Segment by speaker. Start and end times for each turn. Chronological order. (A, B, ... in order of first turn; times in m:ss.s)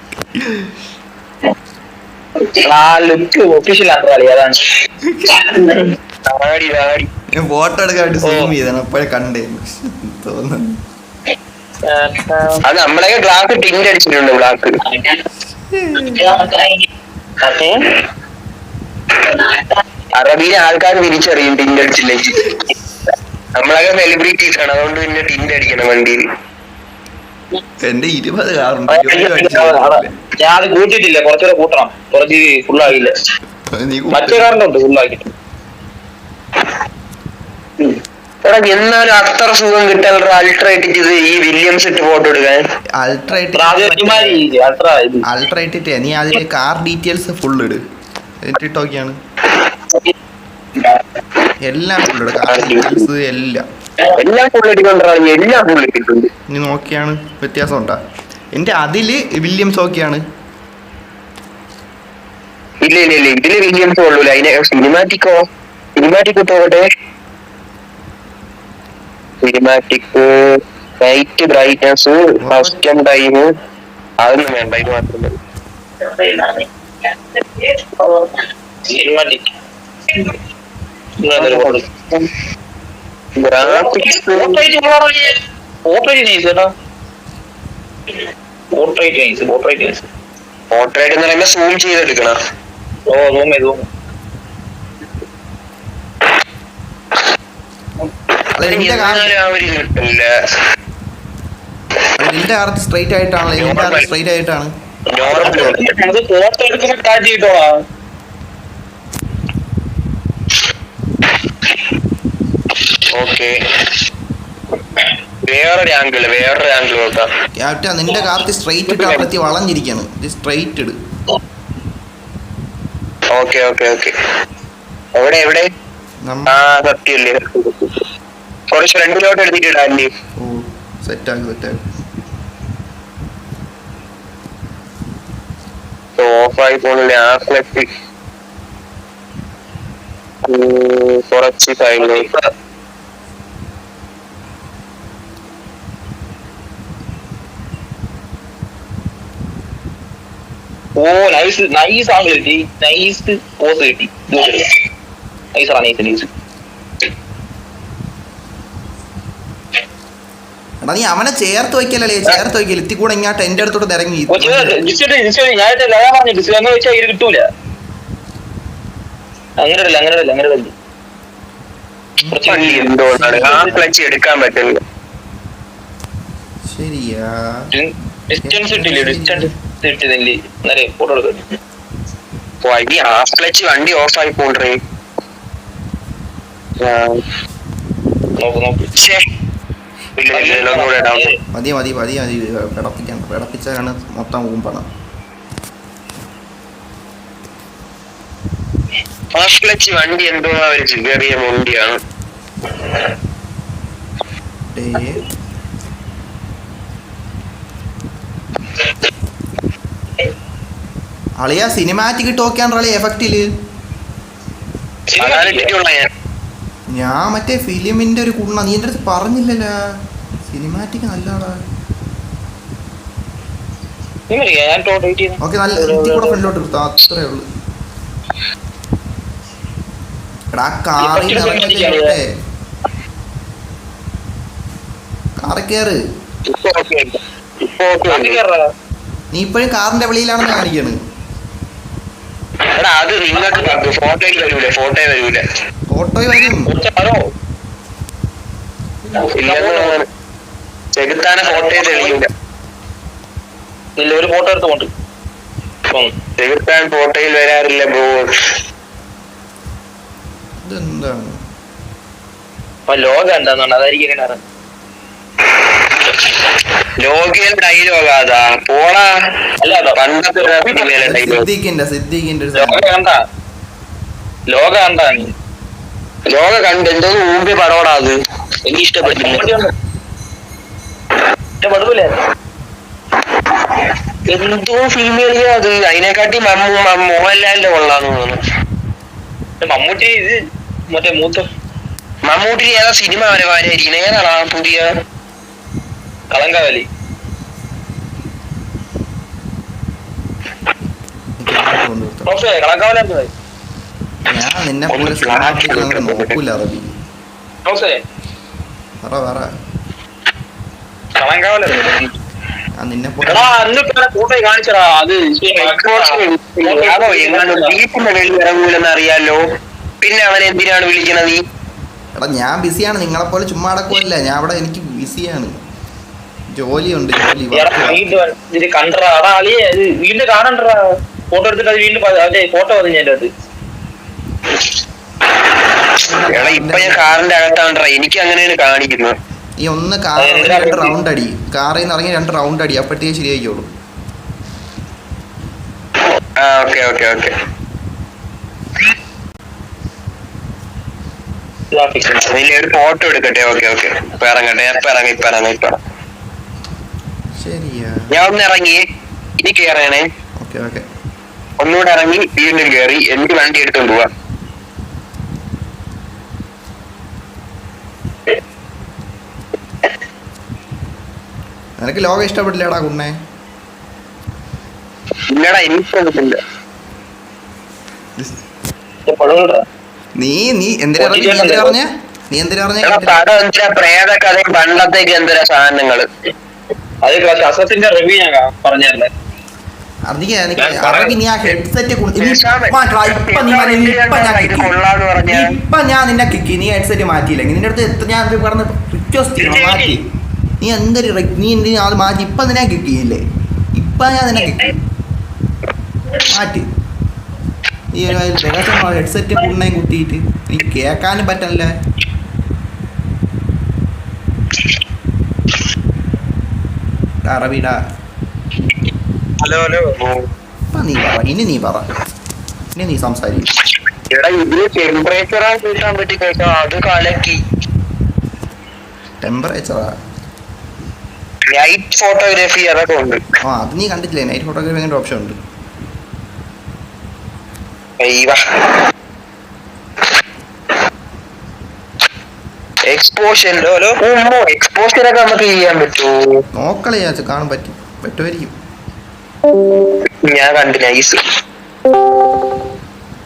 0:00.4-0:00.7 A
0:02.6-0:04.7 B
0:05.0-0:05.9 A
0:05.4-0:05.9 B
0:06.3-0:07.0 C
0:07.3-0:10.8 A
0:08.2-0:08.5 B
0:11.8-0:12.6 B
0:12.6-0:14.7 C
0:14.8-0:15.2 B
0:15.7-0:16.4 A
0:16.0-0:16.8 B
0:17.4-0:17.8 B
0:19.3-0:19.6 B
0:20.1-0:22.6 C
0:23.6-0:26.2 C
0:27.8-0:30.1 A
0:28.9-0:33.1 B
0:33.7-0:34.6 A
0:34.1-0:35.3 B
0:38.4-0:42.6 C
0:43.0-0:44.4 A
0:43.5-0:45.2 B
0:45.2-0:47.8 A
0:48.4-0:49.2 A
0:51.6-0:53.6 A
0:52.4-0:53.0 C
0:54.1-0:56.3 C
0:56.5-0:58.0 A
0:58.5-1:00.2 A
1:02.8-1:05.4 C
1:06.0-1:06.8 C
1:09.4-1:10.3 C
1:11.0-1:13.4 C
1:12.4-1:12.8 A
1:14.2-1:15.3 C
1:16.0-1:16.7 B
1:17.6-1:19.5 B
1:21.2-1:21.8 B
1:21.4-1:22.3 C
1:23.4-1:24.6 C
1:23.6-1:26.7 B
1:28.7-1:30.0 B
1:30.7-1:32.4 C
1:33.1-1:33.9 B
1:38.5-1:39.3 A
1:38.6-1:40.3 C
1:42.2-1:44.7 A
1:43.6-1:44.1 C
1:45.1-1:45.8 C
1:45.2-1:47.7 B
1:53.1-1:53.6 C
1:55.4-1:57.3 C
1:57.6-2:00.9 A
1:58.9-1:59.2 C
2:03.3-2:04.1 C
2:05.2-2:05.6 C
2:06.2-2:06.6 A
2:06.5-2:08.0 C
2:08.7-2:10.1 C
2:10.4-2:11.8 A
2:16.2-2:17.9 C
2:20.5-2:22.3 C
2:22.0-2:22.5 B
2:31.0-2:34.7 B
2:35.5-2:36.3 B
2:40.8-2:44.8 A
2:44.3-2:47.4 B
2:49.6-2:50.7 B
2:52.2-2:53.9 A
2:52.3-2:53.7 B
2:52.4-2:54.8 C
2:56.6-2:57.7 A
2:57.7-3:01.5 B
2:58.4-2:59.5 A
3:02.6-3:04.8 C
3:06.8-3:07.2 C
3:08.4-3:08.9 B
3:09.0-3:09.2 C
3:10.2-3:11.3 C
3:10.3-3:11.3 B
3:11.5-3:14.9 A
3:19.3-3:22.0 C
3:24.7-3:25.2 A
3:31.4-3:33.5 A
3:35.1-3:35.7 B
3:35.2-3:36.1 C
3:36.9-3:39.7 A
3:40.5-3:41.6 A
3:44.3-3:46.5 B
3:45.4-3:47.4 A
3:50.5-3:52.2 A
3:51.0-3:52.1 B
3:55.4-3:56.0 A
3:56.5-3:58.4 C
3:58.1-3:58.6 B
3:59.3-4:01.0 A
4:02.7-4:05.4 C
4:03.4-4:03.8 B
4:05.9-4:06.7 A
4:06.5-4:07.2 B
4:09.1-4:10.0 B
4:09.3-4:10.1 C
4:10.9-4:12.3 C
4:11.4-4:12.2 B
4:14.0-4:14.9 B
4:15.9-4:16.1 B
4:16.4-4:18.3 C
4:20.6-4:21.4 A
4:22.9-4:24.4 B
4:27.0-4:29.1 C
4:29.6-4:31.0 B
4:29.9-4:31.4 C
4:31.0-4:32.8 A
4:32.6-4:33.2 B
4:34.5-4:35.3 B
4:36.3-4:39.5 C
4:39.0-4:39.7 B
4:41.6-4:42.2 B
4:44.3-4:48.4 C
4:49.6-4:50.4 B
4:50.9-4:51.5 B
4:52.2-4:54.9 C
4:56.3-4:56.8 B
5:01.4-5:02.3 A
5:02.3-5:03.3 B
5:04.2-5:06.9 A
5:04.9-5:06.4 C
5:07.6-5:08.0 B
5:09.0-5:09.5 A
5:11.2-5:12.1 B
5:12.8-5:13.6 A
5:13.2-5:17.8 B
5:15.6-5:19.4 C
5:20.0-5:21.4 C
5:22.2-5:25.6 A
5:26.5-5:28.0 A
5:27.5-5:30.8 B
5:31.3-5:33.3 B
5:36.0-5:37.2 A
5:36.3-5:39.1 C
5:39.6-5:43.7 A
5:40.2-5:40.9 B
5:46.4-5:47.3 C
5:51.7-5:52.3 B
5:52.2-5:55.8 C
5:57.4-5:58.1 A
5:58.1-5:58.8 C
5:59.4-6:00.0 C
6:00.4-6:00.8 A
6:01.6-6:04.1 C
6:11.8-6:13.1 A
6:15.3-6:16.4 C
6:19.0-6:19.6 B
6:20.2-6:23.2 A
6:21.0-6:21.8 B
6:22.8-6:26.0 C
6:27.0-6:29.1 B
6:30.1-6:34.8 A
6:30.6-6:31.2 B
6:32.2-6:35.5 C
6:35.3-6:40.0 A
6:39.4-6:40.0 B
6:40.6-6:43.2 A
6:43.7-6:44.8 A
6:46.3-6:46.6 A
6:47.9-6:51.7 A
6:57.2-6:57.8 A
6:59.4-6:59.9 B
7:00.0-7:00.2 C
7:00.7-7:01.8 A
7:02.7-7:03.5 A
7:04.1-7:07.4 C
7:09.2-7:09.9 A
7:11.5-7:13.2 C
7:13.4-7:15.4 A
7:18.0-7:18.8 C
7:22.9-7:23.4 C
7:23.6-7:23.9 B
7:24.0-7:26.3 C
7:26.6-7:28.5 A
7:30.2-7:31.2 C